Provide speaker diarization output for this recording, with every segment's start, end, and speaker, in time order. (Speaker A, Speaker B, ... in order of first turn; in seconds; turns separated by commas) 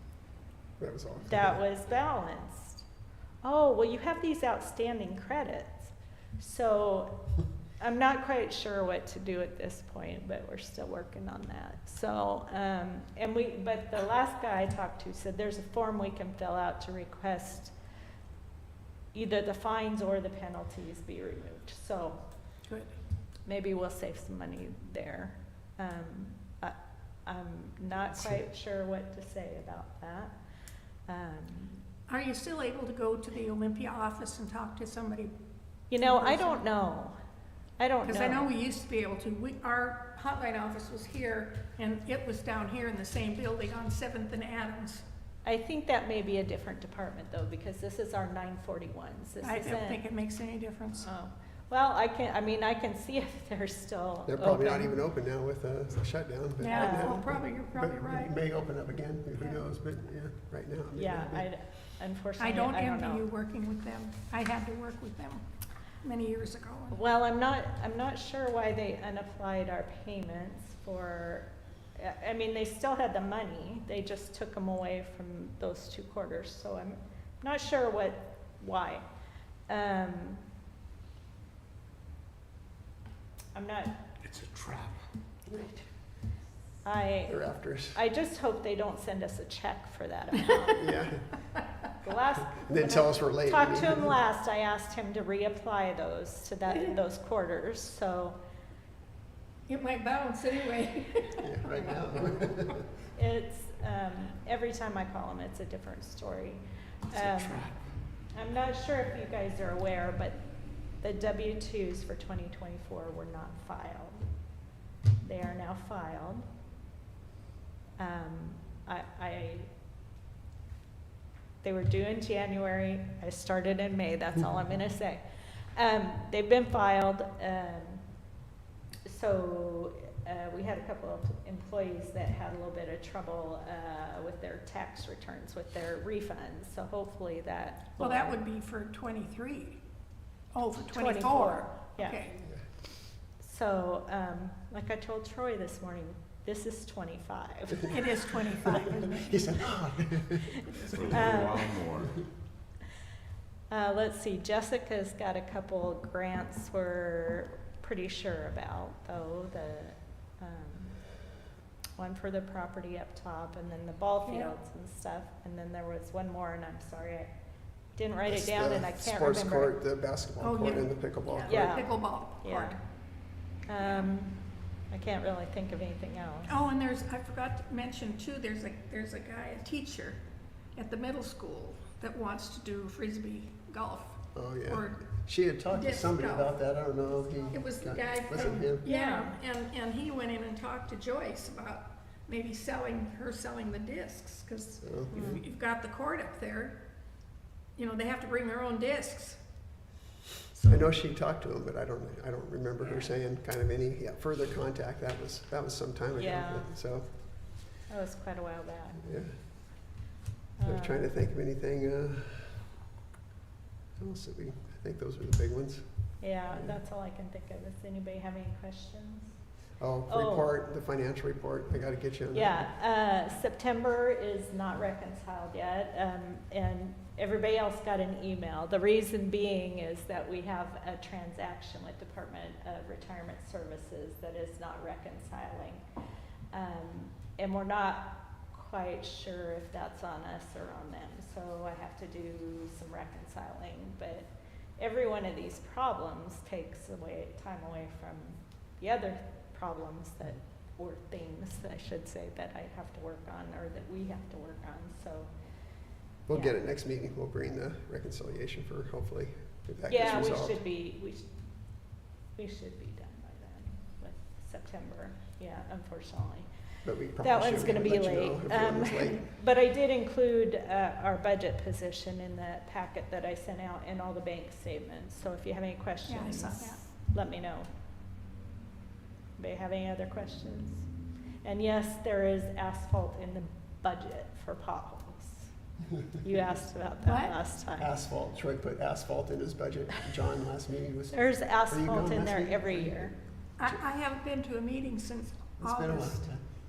Speaker A: 0.8-1.6, Speaker B: 1.3-2.9, Speaker B: 3.4-7.2, Speaker B: 7.8-17.7, Speaker B: 19.1-22.2, Speaker C: 22.7-22.9, Speaker B: 23.5-30.3, Speaker B: 31.1-31.8, Speaker C: 32.1-35.3, Speaker B: 35.9-37.2, Speaker C: 36.0-36.6, Speaker B: 37.8-38.5, Speaker C: 38.0-45.0, Speaker B: 45.5-50.0, Speaker C: 49.4-51.1, Speaker B: 51.0-54.9, Speaker A: 54.3-61.5, Speaker C: 56.6-58.3, Speaker B: 56.7-57.2, Speaker B: 60.9-63.3, Speaker C: 62.4-65.4, Speaker C: 66.0-67.0, Speaker B: 66.9-79.0, Speaker B: 79.7-80.4, Speaker B: 83.5-83.9, Speaker D: 84.2-85.0, Speaker B: 85.5-85.8, Speaker B: 86.8-90.9, Speaker A: 87.3-88.0, Speaker A: 90.8-91.2, Speaker B: 92.0-98.4, Speaker A: 92.5-94.2, Speaker C: 99.7-101.5, Speaker A: 101.4-102.8, Speaker B: 103.2-107.7, Speaker D: 107.1-107.8, Speaker B: 108.3-110.4, Speaker B: 111.0-114.3, Speaker B: 115.2-116.5, Speaker B: 118.0-119.7, Speaker B: 121.6-125.2, Speaker B: 125.8-128.0, Speaker B: 129.1-138.4, Speaker C: 138.0-139.8, Speaker C: 140.5-142.4, Speaker B: 140.9-142.2, Speaker B: 143.4-148.1, Speaker C: 147.9-149.7, Speaker A: 149.0-151.2, Speaker B: 150.6-151.8, Speaker D: 150.9-152.2, Speaker B: 153.7-161.0, Speaker B: 162.0-167.3, Speaker C: 164.2-164.5, Speaker B: 168.0-169.8, Speaker A: 168.3-171.8, Speaker C: 170.4-172.8, Speaker B: 171.5-172.8, Speaker B: 173.7-176.6, Speaker C: 173.8-174.1, Speaker C: 176.5-180.2, Speaker C: 180.8-185.0, Speaker A: 184.3-188.9, Speaker C: 185.7-186.6, Speaker C: 187.5-196.8, Speaker B: 188.4-189.4, Speaker A: 194.8-195.4, Speaker B: 195.1-195.4, Speaker C: 197.8-199.4, Speaker A: 200.6-207.1, Speaker B: 202.8-203.1, Speaker B: 206.2-206.7, Speaker B: 207.9-209.1, Speaker A: 209.0-209.4, Speaker B: 210.6-211.1, Speaker A: 210.6-212.6, Speaker A: 214.0-216.8, Speaker B: 216.2-219.3, Speaker A: 219.8-222.7, Speaker B: 220.1-220.5, Speaker B: 222.3-235.8, Speaker B: 236.5-255.3, Speaker A: 256.3-260.6, Speaker B: 259.9-261.3, Speaker B: 262.4-266.5, Speaker A: 266.8-269.4, Speaker B: 267.2-277.7, Speaker C: 276.1-276.8, Speaker B: 279.4-280.9, Speaker B: 281.4-285.5, Speaker B: 286.2-287.9, Speaker C: 287.0-287.4, Speaker A: 287.8-293.8, Speaker B: 291.1-293.1, Speaker C: 293.6-296.2, Speaker A: 295.6-296.4